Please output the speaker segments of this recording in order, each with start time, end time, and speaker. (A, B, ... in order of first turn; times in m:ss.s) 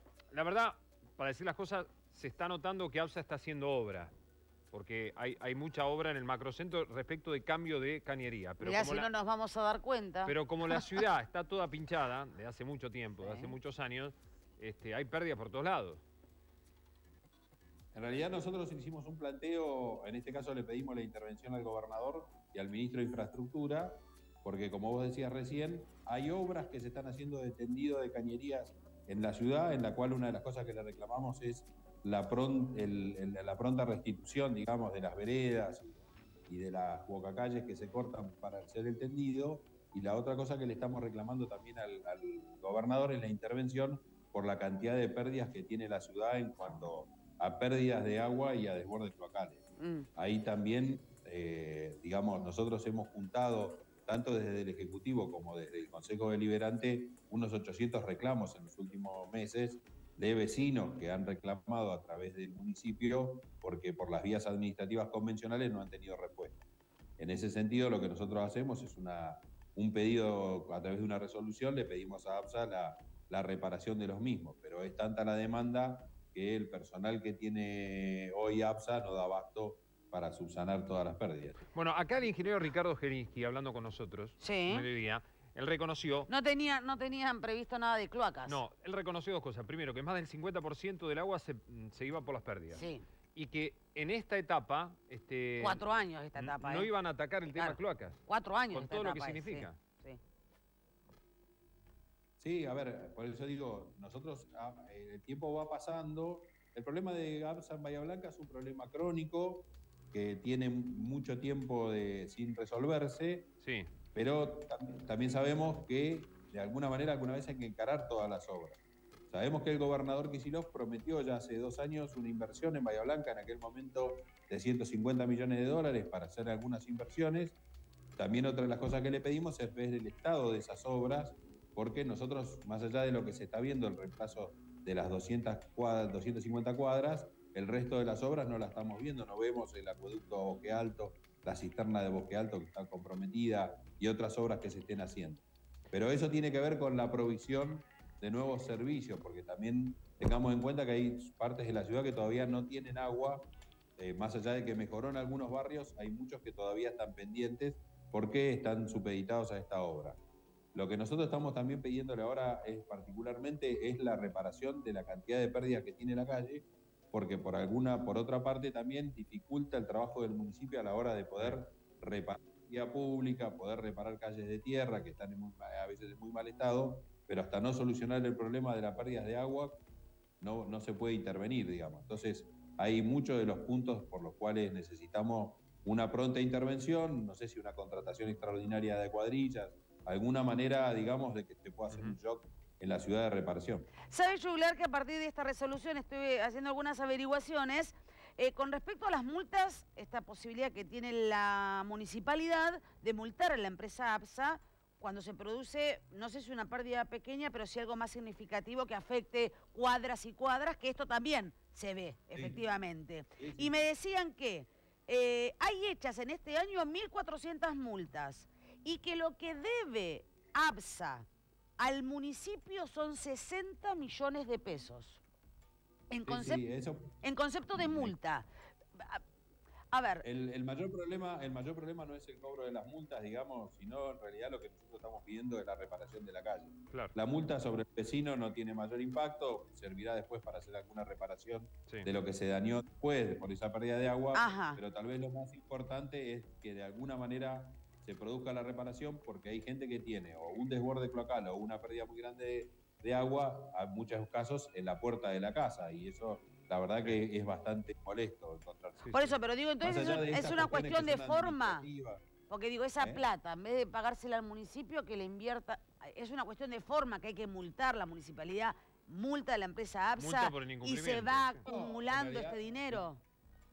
0:00.3-0:04.1 A
0:04.7-0:09.1 A
0:08.6-0:11.0 B
0:10.2-0:16.0 A
0:13.2-0:13.6 B
0:17.9-0:49.6 C
0:49.8-0:50.1 B
0:50.2-1:06.6 C
1:07.2-1:21.6 C
1:21.7-1:26.3 A
1:24.4-1:24.9 B
1:26.3-1:28.6 B
1:28.5-1:39.8 A
1:32.7-1:33.0 B
1:35.6-1:36.9 B
1:37.5-1:40.2 B
1:42.4-1:53.5 C
1:53.6-1:53.9 A
1:54.2-1:58.8 C
1:59.3-2:07.6 C
2:08.2-2:40.2 C
2:40.7-2:59.8 C
3:00.4-3:13.9 C
3:11.9-3:12.2 A
3:14.0-3:41.3 B
3:32.3-3:32.6 C
3:33.4-3:33.8 C
3:41.8-3:45.2 B
3:46.1-3:46.6 B
3:46.2-3:47.2 C
3:47.2-3:49.2 B
3:47.7-3:48.1 C
3:49.9-3:50.2 B
3:50.2-4:19.1 C
4:04.3-4:04.8 B
4:19.0-4:19.3 A
4:19.1-4:21.8 B
4:19.8-4:22.2 C
4:22.5-4:33.2 B
4:23.0-4:23.2 C
4:30.2-4:31.6 A
4:31.6-4:33.1 C